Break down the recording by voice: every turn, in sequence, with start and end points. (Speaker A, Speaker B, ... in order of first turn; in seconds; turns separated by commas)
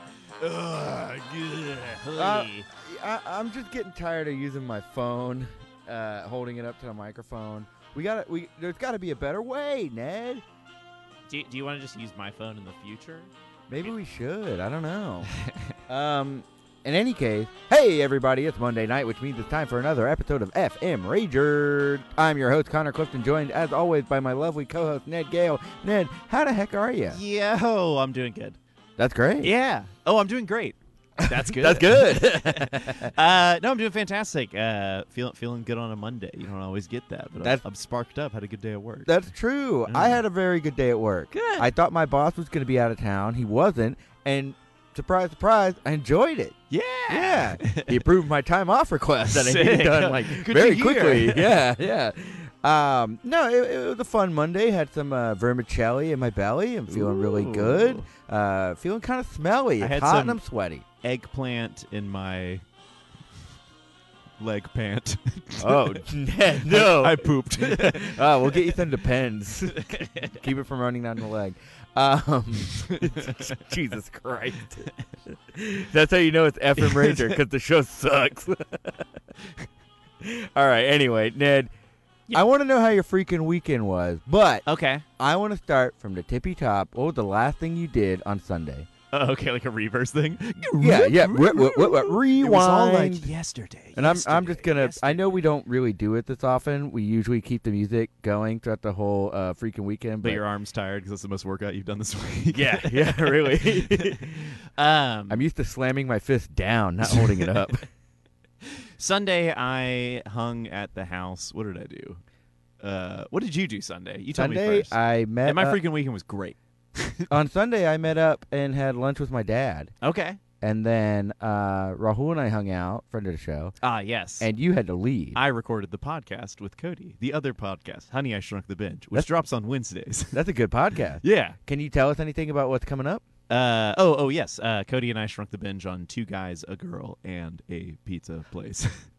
Speaker A: 0.4-2.7, Speaker B: 2.2-10.4, Speaker A: 11.3-13.3, Speaker B: 13.7-15.3, Speaker A: 15.4-15.7, Speaker B: 15.9-27.2, Speaker A: 27.1-28.6, Speaker B: 29.0-29.5, Speaker A: 29.4-39.2, Speaker B: 31.2-33.1, Speaker B: 39.1-46.6, Speaker A: 39.9-40.2, Speaker A: 41.3-41.7, Speaker A: 46.7-48.0, Speaker B: 47.1-60.8, Speaker A: 49.3-51.6, Speaker A: 56.9-58.1, Speaker A: 59.8-60.4, Speaker A: 61.0-62.6, Speaker A: 64.4-66.0, Speaker B: 65.6-74.9, Speaker A: 66.6-68.7, Speaker A: 69.8-70.4, Speaker A: 72.9-73.5, Speaker B: 75.5-79.1, Speaker A: 76.8-77.4, Speaker B: 80.2-81.7, Speaker B: 82.3-84.6, Speaker A: 84.7-85.0, Speaker B: 85.2-88.9, Speaker A: 89.1-95.4, Speaker B: 90.8-93.3, Speaker B: 94.0-100.4, Speaker A: 100.2-105.4, Speaker B: 102.5-104.6, Speaker B: 105.3-107.9, Speaker A: 107.1-107.4, Speaker A: 109.0-112.2, Speaker A: 112.8-117.3, Speaker B: 114.3-115.8, Speaker B: 117.3-119.9, Speaker A: 120.0-120.4, Speaker B: 120.6-123.8, Speaker A: 123.8-124.5, Speaker B: 124.4-125.4, Speaker A: 125.3-130.4, Speaker B: 130.3-133.2, Speaker A: 131.2-131.6, Speaker A: 133.5-139.1